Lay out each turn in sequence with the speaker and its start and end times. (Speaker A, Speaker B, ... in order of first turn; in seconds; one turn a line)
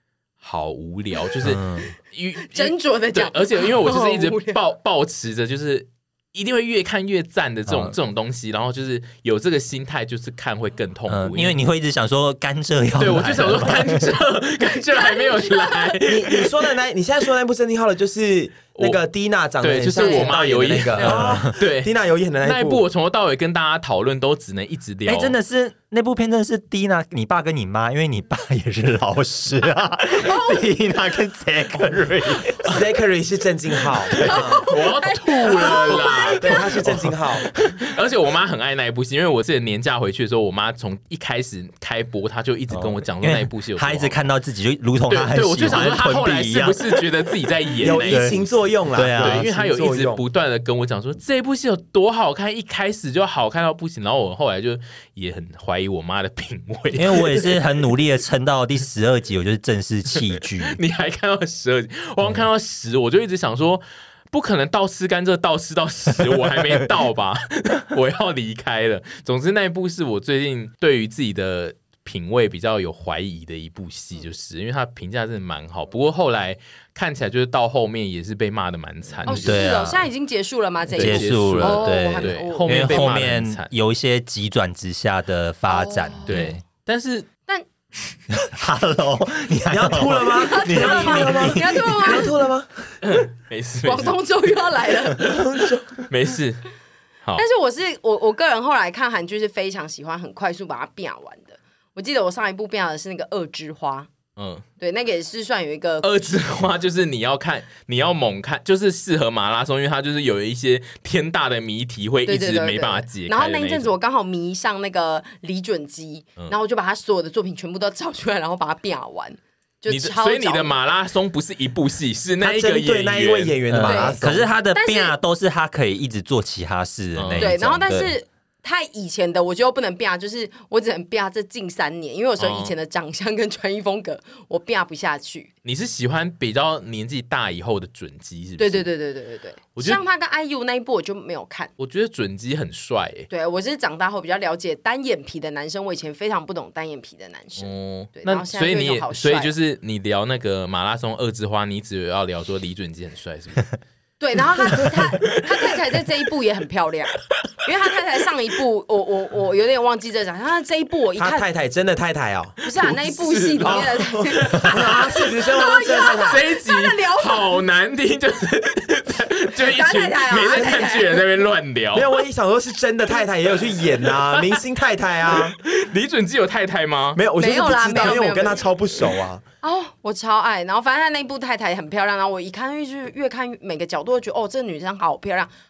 Speaker A: 0.4-11.5
Speaker B: 1.4-1.9
Speaker C: 2.4-4.6
Speaker B: 7.7-8.0
Speaker B: 11.1-14.2
Speaker A: 13.0-16.6
Speaker C: 14.7-16.0
Speaker D: 16.0-22.8
Speaker A: 18.7-19.0
Speaker A: 19.6-25.4
Speaker C: 19.9-20.4
Speaker B: 21.0-21.5
Speaker B: 25.1-32.8
Speaker C: 30.1-30.7
Speaker D: 32.6-34.7
Speaker C: 34.1-36.6
Speaker A: 34.2-36.7
Speaker D: 36.0-37.5
Speaker A: 37.5-44.2
Speaker B: 42.7-47.0
Speaker A: 45.1-48.5
Speaker D: 47.8-50.2
Speaker B: 47.8-48.4
Speaker B: 48.9-49.5
Speaker A: 49.2-57.6
Speaker B: 56.9-60.8
Speaker A: 60.6-79.7
Speaker C: 79.2-83.2
Speaker B: 79.3-80.0
Speaker A: 80.9-83.7
Speaker B: 81.0-86.6
Speaker C: 85.7-86.5
Speaker A: 86.3-87.3
Speaker B: 88.3-92.2
Speaker D: 89.7-92.9
Speaker C: 90.3-92.3
Speaker A: 93.0-95.4
Speaker C: 93.8-95.4
Speaker D: 95.2-96.0
Speaker A: 96.0-96.7
Speaker C: 97.3-104.1
Speaker A: 104.4-104.6
Speaker C: 104.8-106.4
Speaker A: 106.0-113.9
Speaker C: 112.2-120.7
Speaker A: 119.9-123.6
Speaker D: 122.4-124.5
Speaker B: 123.7-128.1
Speaker C: 123.8-124.2
Speaker C: 124.7-125.1
Speaker A: 127.2-127.6
Speaker C: 127.4-135.5
Speaker A: 132.4-132.7
Speaker A: 135.6-138.9
Speaker C: 138.6-141.7
Speaker A: 139.8-140.0
Speaker A: 141.8-143.3
Speaker C: 143.3-149.5
Speaker A: 147.6-153.7
Speaker C: 154.2-161.4
Speaker A: 154.7-155.7
Speaker D: 161.2-162.6
Speaker C: 162.6-167.6
Speaker A: 162.8-172.2
Speaker D: 163.6-166.4
Speaker C: 169.6-171.2
Speaker D: 171.9-175.6
Speaker A: 174.0-174.6
Speaker A: 175.2-177.2
Speaker D: 177.1-179.4
Speaker C: 177.3-178.7
Speaker C: 179.6-185.5